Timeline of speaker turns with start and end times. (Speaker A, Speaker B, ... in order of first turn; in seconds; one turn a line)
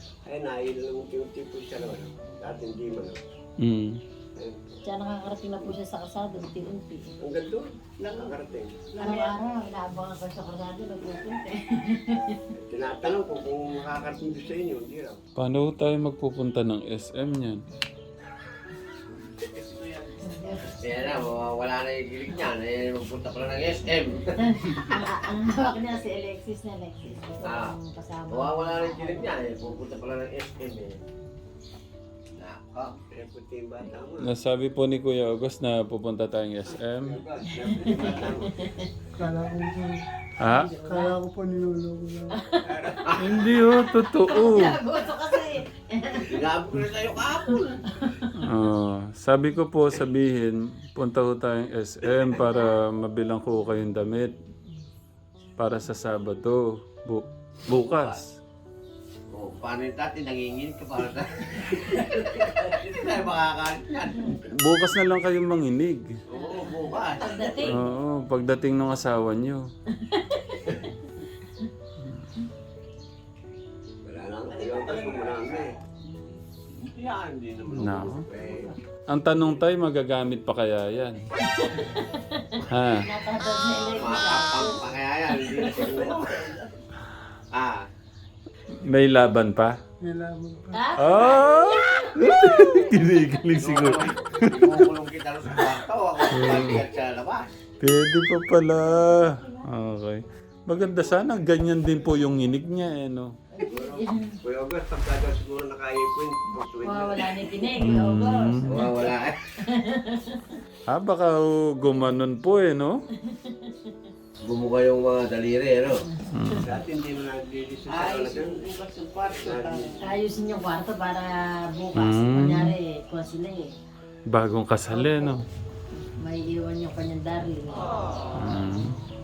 Speaker A: 0.2-3.2
Speaker B: 3.6-4.0
Speaker A: 4.3-4.8
Speaker C: 4.8-7.1
Speaker A: 7.2-8.8
Speaker D: 8.0-8.3
Speaker D: 8.9-9.4
Speaker C: 9.0-12.4
Speaker A: 12.5-15.2
Speaker B: 15.4-17.6
Speaker D: 19.8-20.2
Speaker C: 20.2-20.8
Speaker E: 20.8-25.8
Speaker C: 24.4-29.2
Speaker E: 27.4-27.8
Speaker E: 28.3-31.0
Speaker E: 32.4-32.9
Speaker A: 33.0-34.3
Speaker B: 34.2-37.2
Speaker A: 36.7-38.6
Speaker C: 37.7-38.9
Speaker F: 39.2-40.0
Speaker B: 40.4-40.7
Speaker C: 40.4-41.1
Speaker F: 40.8-42.4
Speaker C: 42.3-42.9
Speaker A: 42.6-43.4
Speaker E: 43.0-43.4
Speaker B: 43.1-44.8
Speaker C: 43.6-46.5
Speaker E: 46.1-47.8
Speaker C: 47.9-48.3
Speaker B: 48.4-54.3
Speaker B: 55.6-58.3
Speaker E: 57.8-58.2
Speaker E: 59.3-64.3
Speaker B: 64.5-66.1
Speaker E: 66.3-67.8
Speaker C: 66.3-67.8
Speaker B: 67.6-69.7
Speaker C: 70.0-70.8
Speaker E: 74.0-74.7
Speaker A: 74.5-75.7
Speaker D: 74.5-75.5
Speaker E: 76.7-78.7
Speaker B: 77.7-78.2
Speaker B: 79.1-81.2
Speaker C: 81.5-85.8
Speaker B: 82.7-83.1
Speaker E: 83.8-86.4
Speaker D: 85.7-86.7
Speaker E: 87.5-87.8
Speaker B: 88.8-89.7
Speaker F: 90.0-90.9
Speaker C: 90.7-92.8
Speaker B: 91.0-94.8
Speaker E: 93.6-97.5
Speaker B: 96.3-96.8
Speaker B: 97.8-103.3
Speaker C: 99.0-99.6
Speaker C: 103.5-104.4
Speaker A: 103.6-107.6
Speaker C: 106.8-110.5
Speaker B: 107.8-108.7
Speaker E: 108.7-109.3
Speaker B: 110.9-113.0
Speaker C: 113.2-113.9
Speaker E: 114.4-116.0
Speaker C: 116.2-116.5
Speaker B: 116.3-116.7
Speaker A: 116.6-118.6
Speaker D: 117.9-120.0
Speaker A: 119.3-120.0
Speaker C: 120.0-123.7
Speaker B: 122.0-122.8
Speaker B: 124.3-125.4
Speaker C: 124.9-125.4
Speaker C: 126.2-127.9
Speaker B: 128.4-129.0